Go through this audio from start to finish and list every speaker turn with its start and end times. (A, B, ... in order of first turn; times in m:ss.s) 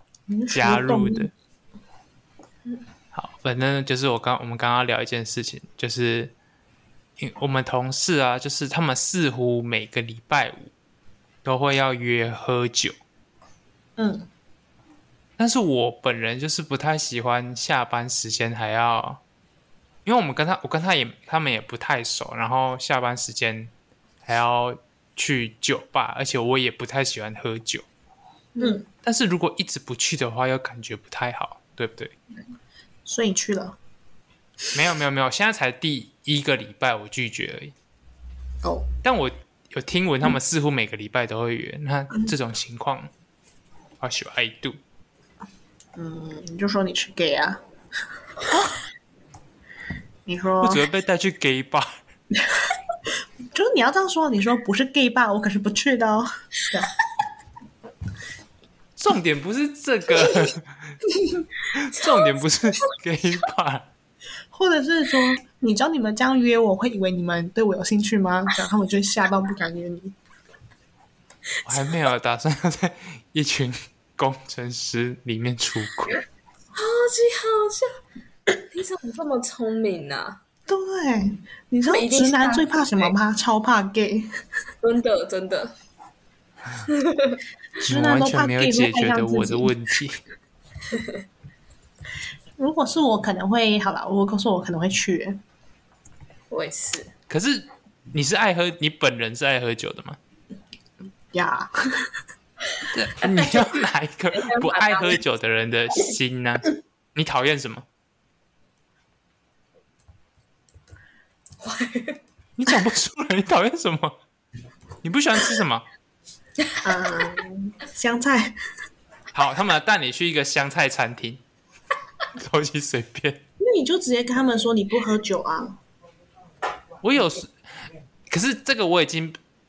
0:00.3-0:01.3 A
0:00.5-0:01.3 B
0:03.1-0:06.3 B
0:07.2-0:10.7 B
0:11.4-0:12.9 B
0:14.0-0:14.3 A
0:15.4-0:19.2 B
0:20.0-0:23.7 B
0:24.2-0:27.9 B
0:28.6-0:28.8 C
0:28.6-0:28.8 A
0:29.0-0:32.2 B
0:33.1-0:33.8 A
0:34.7-0:37.7 B
0:39.0-0:43.1 B
0:44.0-0:44.8 B
0:46.0-0:47.6 A
0:48.5-0:48.8 B
0:50.3-0:50.8 A
0:50.6-0:52.0 B
0:53.5-0:56.9 A
0:59.0-1:00.7 B
1:01.7-1:03.9 B
1:02.0-1:02.4 C
1:04.5-1:10.2 A
1:11.6-1:16.2 B
1:16.8-1:18.0 C
1:18.7-1:20.4 C
1:20.7-1:24.3 A
1:21.9-1:23.1 C
1:24.8-1:25.8 C
1:26.9-1:27.4 C
1:27.8-1:29.7 A
1:27.9-1:30.2 B
1:32.6-1:35.4 A
1:36.5-1:37.1 C
1:37.3-1:40.2 B
1:41.3-1:42.1 A
1:42.9-1:47.9 B
1:43.4-1:43.7 C
1:44.4-1:45.2 C
1:51.6-1:52.2 C
1:52.6-1:54.2 B
1:55.0-1:55.8 B
1:56.8-1:58.5 A
1:59.3-2:01.4 B
2:02.4-2:03.4 B
2:03.6-2:05.8 A
2:07.0-2:07.5 B
2:08.3-2:09.4 B